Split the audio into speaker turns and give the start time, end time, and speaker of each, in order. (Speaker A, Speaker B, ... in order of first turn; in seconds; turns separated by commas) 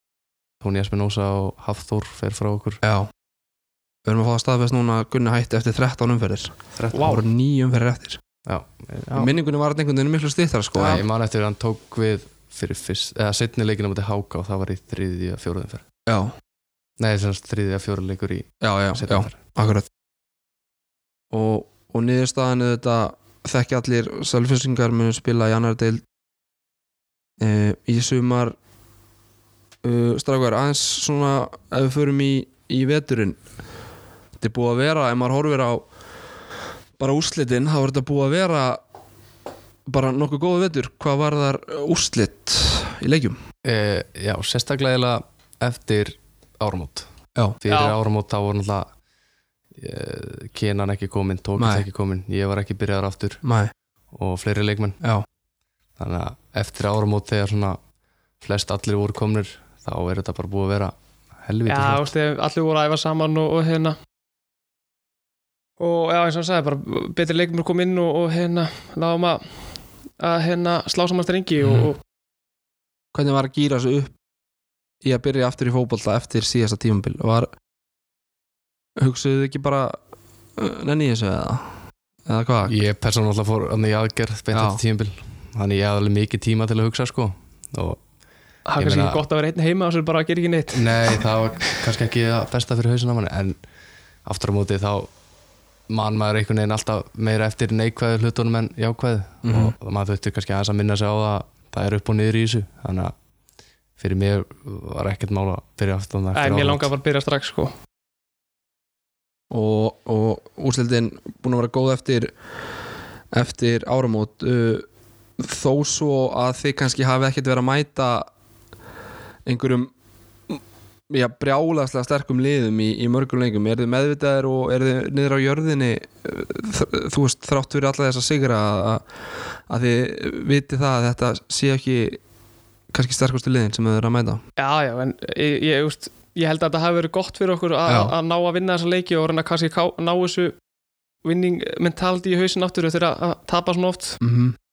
Speaker A: 0.6-2.8, Speaker B: 2.8-3.1, Speaker B: 4.0-8.2, Speaker A: 6.8-7.2, Speaker A: 8.4-9.3, Speaker B: 9.1-11.0, Speaker A: 10.7-15.8, Speaker B: 16.1-16.3, Speaker A: 17.0-19.4, Speaker B: 18.6-19.9, Speaker B: 21.3-26.0, Speaker B: 27.4-28.6, Speaker B: 29.8-33.4, Speaker B: 34.4-35.9, Speaker B: 37.0-38.8, Speaker B: 39.9-43.4, Speaker A: 43.6-47.1, Speaker A: 47.6-48.9, Speaker C: 47.7-48.0, Speaker A: 49.8-53.4, Speaker B: 51.6-51.9, Speaker B: 53.4-53.7, Speaker A: 54.1-55.0, Speaker B: 55.0-55.2, Speaker A: 56.0-57.8, Speaker A: 58.4-60.9, Speaker A: 61.4-62.1, Speaker C: 61.7-64.0, Speaker C: 65.8-69.4, Speaker C: 70.2-72.0, Speaker B: 71.6-71.9, Speaker B: 73.1-74.1, Speaker B: 75.0-77.5, Speaker B: 79.0-80.0, Speaker B: 80.5-82.8, Speaker A: 82.6-88.0, Speaker B: 84.5-84.8, Speaker C: 88.7-91.8, Speaker A: 88.8-89.2, Speaker A: 90.7-93.6, Speaker A: 94.2-95.1, Speaker A: 95.9-103.1, Speaker B: 99.4-99.7, Speaker A: 104.0-106.9, Speaker C: 106.3-107.7, Speaker B: 109.5-112.3, Speaker B: 113.3-114.9, Speaker B: 115.4-118.3, Speaker B: 119.5-119.9, Speaker B: 120.5-132.2, Speaker B: 132.9-134.4, Speaker C: 134.6-140.5, Speaker B: 137.9-138.1, Speaker C: 141.2-144.2, Speaker B: 144.2-144.6